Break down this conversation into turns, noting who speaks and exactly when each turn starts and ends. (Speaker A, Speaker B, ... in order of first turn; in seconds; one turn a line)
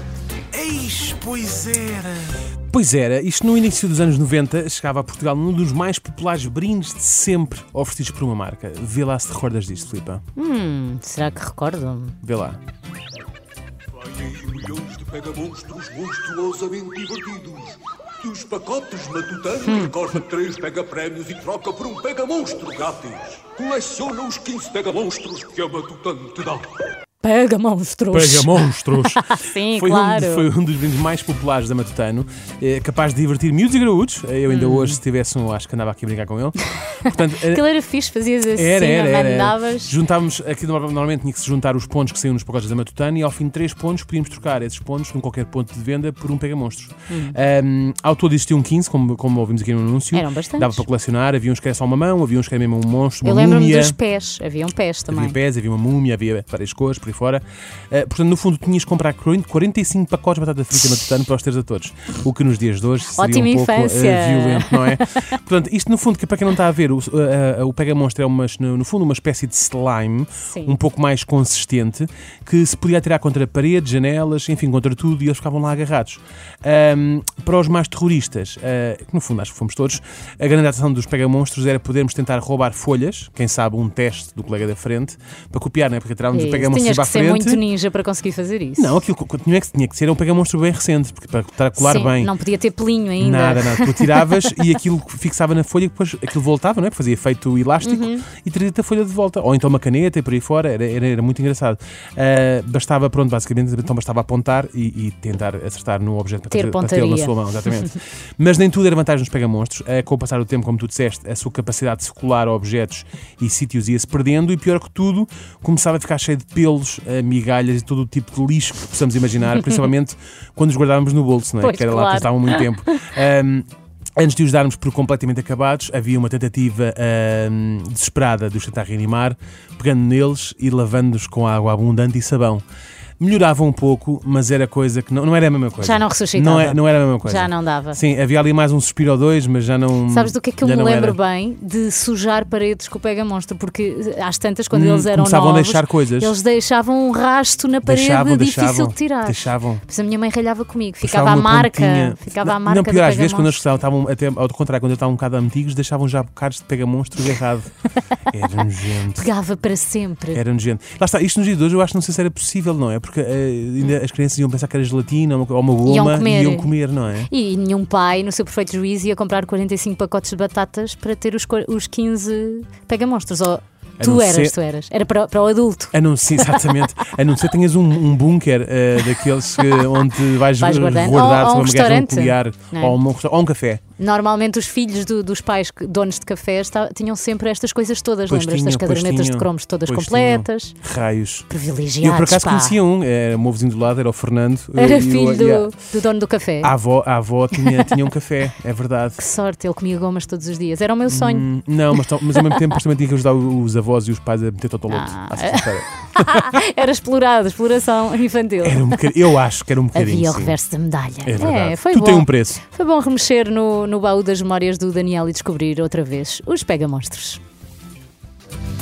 Speaker A: 0.5-10.2
Speaker B: 10.4-12.2
Speaker A: 12.2-12.6
Speaker C: 13.9-26.7
Speaker B: 19.6-20.0
Speaker B: 27.2-30.5
Speaker A: 28.1-37.6
Speaker B: 34.5-35.0
Speaker B: 36.9-40.0
Speaker A: 38.5-54.0
Speaker B: 47.1-47.4
Speaker B: 50.1-50.8
Speaker B: 53.2-55.4
Speaker A: 55.1-87.6
Speaker B: 63.1-65.4
Speaker B: 70.5-70.8
Speaker B: 86.3-88.9
Speaker A: 88.8-92.3
Speaker B: 91.8-94.6
Speaker A: 93.2-132.6
Speaker B: 97.8-98.2
Speaker B: 106.5-107.7
Speaker B: 121.6-123.2
Speaker A: 133.2-141.2
Speaker B: 135.8-138.0
Speaker B: 140.1-153.6
Speaker A: 144.7-146.3
Speaker A: 147.8-149.8
Speaker A: 151.0-157.7
Speaker A: 158.2-159.3
Speaker B: 159.1-160.4
Speaker A: 160.3-167.3
Speaker B: 165.8-166.7
Speaker B: 167.3-176.9
Speaker A: 174.0-174.6
Speaker A: 175.9-183.8
Speaker B: 179.6-183.0
Speaker B: 184.0-190.7
Speaker A: 188.3-191.5
Speaker B: 191.5-192.8
Speaker A: 192.0-195.7
Speaker B: 194.8-196.7
Speaker A: 196.6-199.2
Speaker B: 199.2-201.5
Speaker A: 201.1-206.6
Speaker B: 202.3-202.6
Speaker B: 204.9-209.2
Speaker A: 208.6-210.6
Speaker B: 209.9-217.4
Speaker A: 211.2-212.6